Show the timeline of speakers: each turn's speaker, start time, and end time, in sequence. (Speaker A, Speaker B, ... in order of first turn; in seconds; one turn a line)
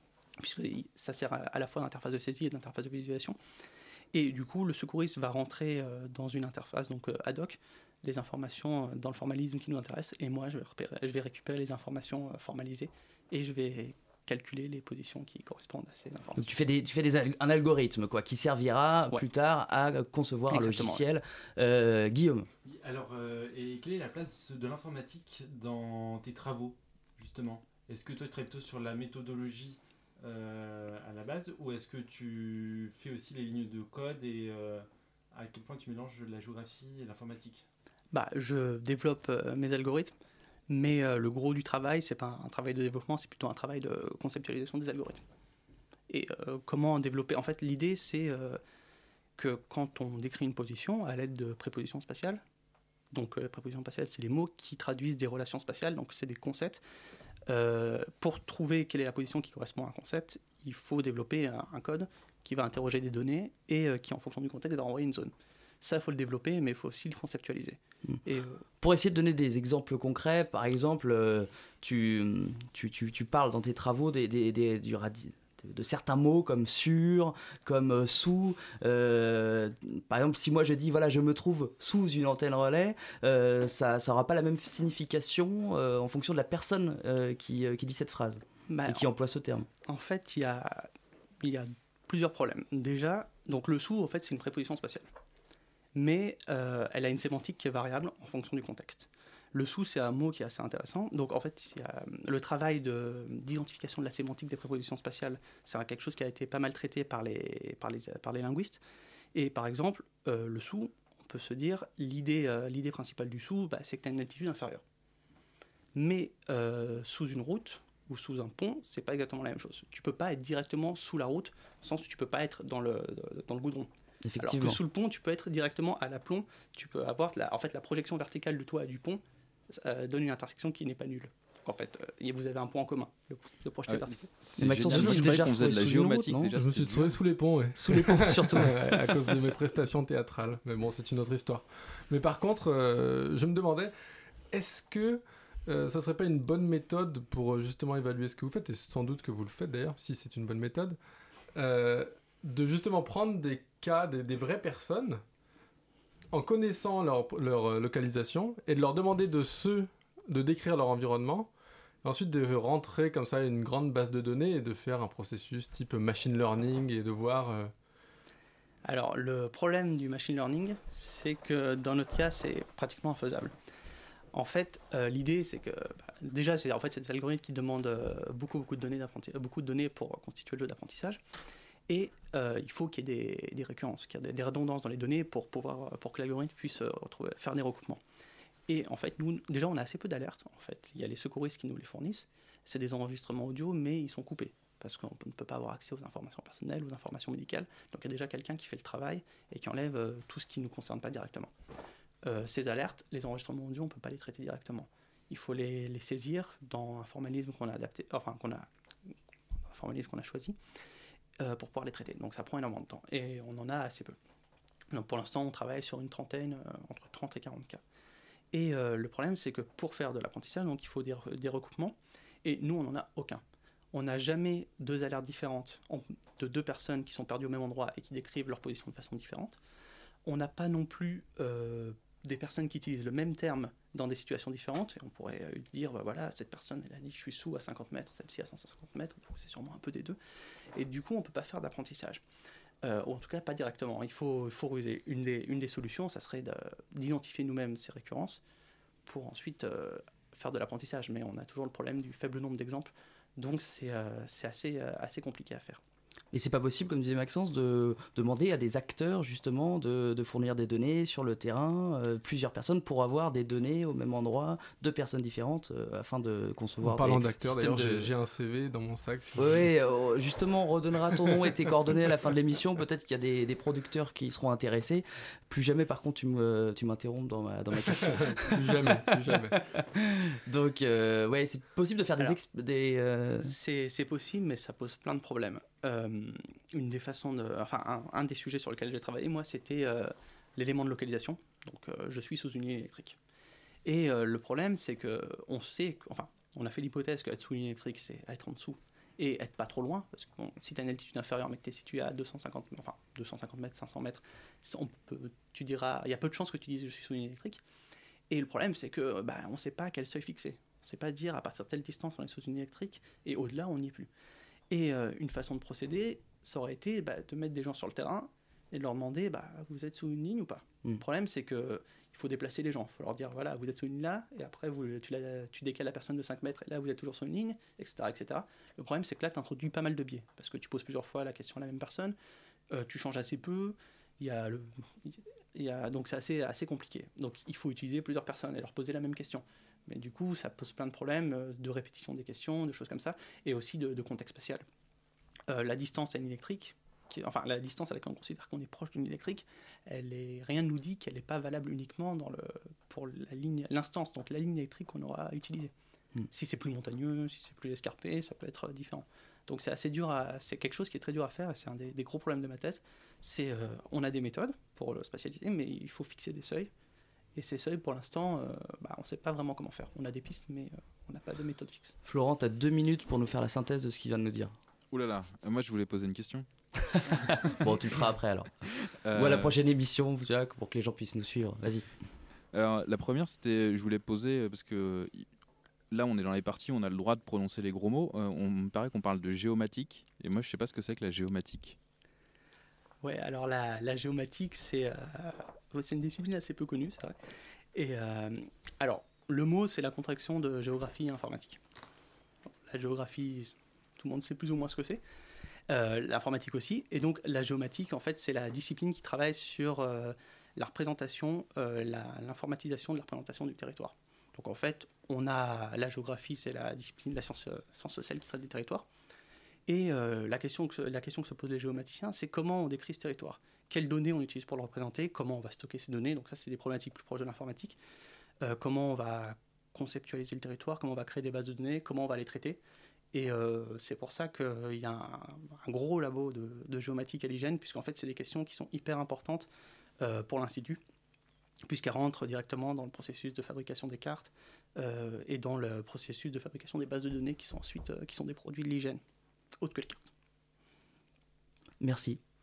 Speaker A: 0.4-3.4
Speaker A: 4.1-16.5
Speaker B: 16.4-22.5
Speaker A: 20.5-21.0
Speaker C: 22.6-37.6
Speaker A: 38.1-40.1
Speaker A: 40.7-45.2
Speaker A: 46.1-48.6
Speaker A: 49.4-52.4
Speaker A: 53.1-56.8
Speaker A: 57.5-68.6
Speaker B: 68.8-89.7
Speaker A: 88.7-89.1
Speaker A: 89.8-90.9
Speaker A: 91.4-95.1
Speaker A: 95.9-108.8
Speaker A: 109.3-114.8
Speaker A: 115.9-135.4
Speaker B: 124.2-124.8
Speaker D: 133.9-137.2
Speaker B: 134.6-136.5
Speaker E: 136.5-143.9
Speaker B: 137.8-139.5
Speaker E: 144.5-151.0
Speaker E: 151.5-155.2
Speaker E: 156.3-161.5
Speaker E: 162.0-167.7
Speaker A: 168.8-173.5
Speaker A: 174.3-181.2
Speaker A: 181.9-188.0
Speaker A: 188.7-201.5
Speaker A: 202.2-208.7
Speaker A: 209.7-210.6
Speaker A: 211.4-214.2
Speaker A: 214.9-217.8
Speaker A: 218.5-223.4
Speaker A: 223.9-229.6
Speaker A: 230.2-240.2
Speaker A: 240.7-242.2
Speaker A: 242.8-248.4
Speaker A: 249.1-255.8
Speaker B: 256.3-268.1
Speaker E: 266.8-269.7
Speaker B: 269.4-283.5
Speaker E: 278.5-279.6
Speaker A: 283.4-293.2
Speaker A: 293.8-307.6
Speaker A: 308.3-314.1
Speaker A: 314.7-332.1
Speaker A: 332.7-344.6
Speaker A: 345.5-355.7
Speaker A: 356.3-366.7
Speaker A: 367.3-371.9
Speaker B: 372.0-374.5
Speaker D: 374.9-376.5
Speaker B: 376.9-381.9
Speaker D: 379.1-379.5
Speaker D: 382.5-385.3
Speaker D: 385.9-391.8
Speaker A: 393.0-397.1
Speaker A: 397.7-401.6
Speaker A: 402.7-405.0
Speaker A: 405.7-418.9
Speaker A: 419.7-427.8
Speaker A: 428.4-432.6
Speaker A: 433.1-439.5
Speaker A: 440.0-440.8
Speaker A: 441.6-449.0
Speaker A: 449.6-450.0
Speaker B: 451.8-452.2